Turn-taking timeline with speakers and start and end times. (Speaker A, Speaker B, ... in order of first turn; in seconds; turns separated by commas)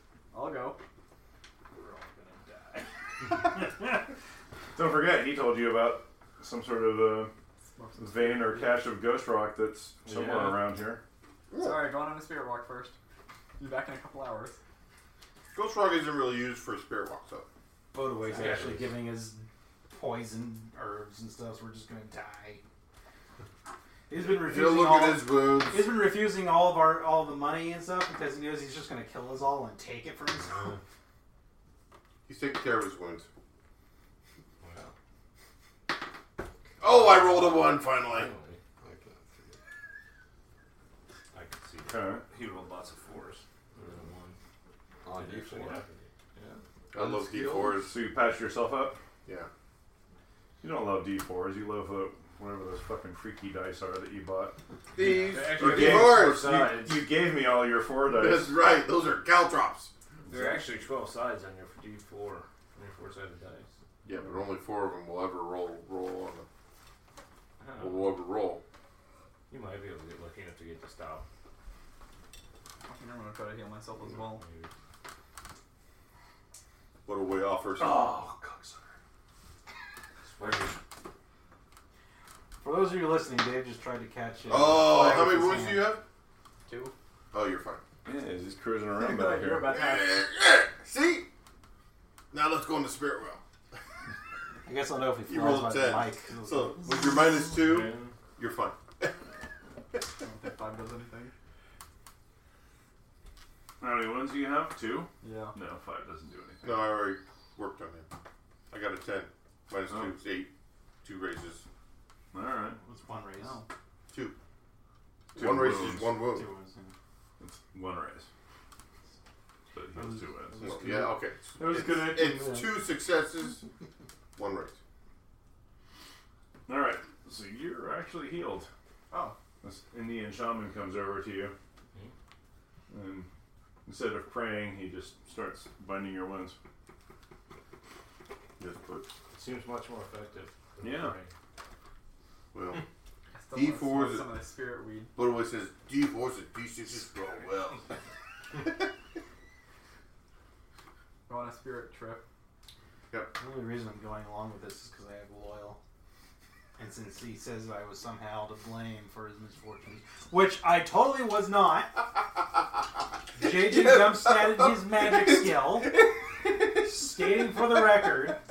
Speaker A: 0.3-0.8, Speaker B: 1.7-4.0, Speaker C: 4.7-7.3, Speaker A: 7.7-8.9, Speaker C: 8.0-11.0, Speaker D: 10.0-10.7, Speaker E: 11.5-11.9, Speaker A: 11.5-13.0, Speaker A: 13.6-14.6, Speaker E: 15.5-17.5, Speaker B: 17.9-22.6, Speaker D: 18.3-19.0, Speaker B: 24.1-30.8, Speaker E: 24.2-26.0, Speaker E: 32.2-33.3, Speaker D: 34.6-34.9, Speaker E: 36.8-38.3, Speaker D: 36.8-38.6, Speaker F: 38.8-39.6, Speaker D: 41.3-44.4, Speaker C: 41.9-42.2, Speaker F: 45.0-45.8, Speaker D: 45.1-46.6, Speaker E: 46.9-48.0, Speaker F: 46.9-47.9, Speaker C: 47.8-49.0, Speaker C: 50.6-54.6, Speaker D: 54.9-57.0, Speaker E: 55.0-56.8, Speaker C: 55.5-58.6, Speaker E: 58.0-59.9, Speaker D: 60.3-63.7, Speaker C: 60.3-60.5, Speaker E: 64.0-66.5, Speaker D: 67.6-68.2, Speaker E: 67.8-68.6, Speaker D: 69.5-71.2, Speaker A: 72.8-74.4, Speaker D: 74.1-74.7, Speaker E: 77.0-78.2, Speaker C: 77.8-78.8, Speaker D: 80.2-80.8, Speaker B: 82.6-85.9, Speaker E: 84.5-86.0, Speaker A: 86.7-86.9, Speaker E: 87.3-87.8, Speaker C: 88.0-89.7, Speaker A: 88.9-90.2, Speaker E: 89.7-91.3, Speaker E: 92.3-93.4, Speaker B: 94.6-96.9, Speaker E: 95.3-99.1, Speaker C: 97.5-98.1, Speaker A: 100.2-101.3, Speaker C: 103.8-106.9, Speaker A: 105.2-105.5, Speaker E: 106.6-108.1, Speaker E: 108.7-110.5, Speaker C: 109.9-110.1, Speaker E: 111.0-111.6, Speaker C: 112.3-112.8, Speaker B: 112.8-113.6, Speaker A: 113.4-113.7, Speaker E: 114.1-114.3, Speaker E: 115.3-116.5, Speaker C: 115.3-116.2, Speaker B: 116.1-116.9, Speaker C: 117.4-118.3, Speaker C: 119.7-122.8, Speaker B: 120.0-120.8, Speaker E: 120.6-123.6, Speaker E: 124.3-124.8, Speaker C: 126.7-128.7, Speaker A: 129.1-129.3, Speaker C: 129.6-131.5, Speaker C: 132.9-133.3, Speaker C: 133.8-136.6, Speaker E: 138.6-139.1, Speaker D: 139.3-141.3, Speaker C: 140.8-141.1, Speaker E: 142.5-142.8, Speaker A: 143.3-145.1, Speaker E: 143.5-144.4, Speaker E: 145.1-147.9, Speaker A: 151.3-152.2, Speaker B: 153.3-155.8, Speaker B: 156.8-162.1, Speaker B: 163.3-166.0, Speaker E: 163.4-167.9, Speaker B: 166.7-168.4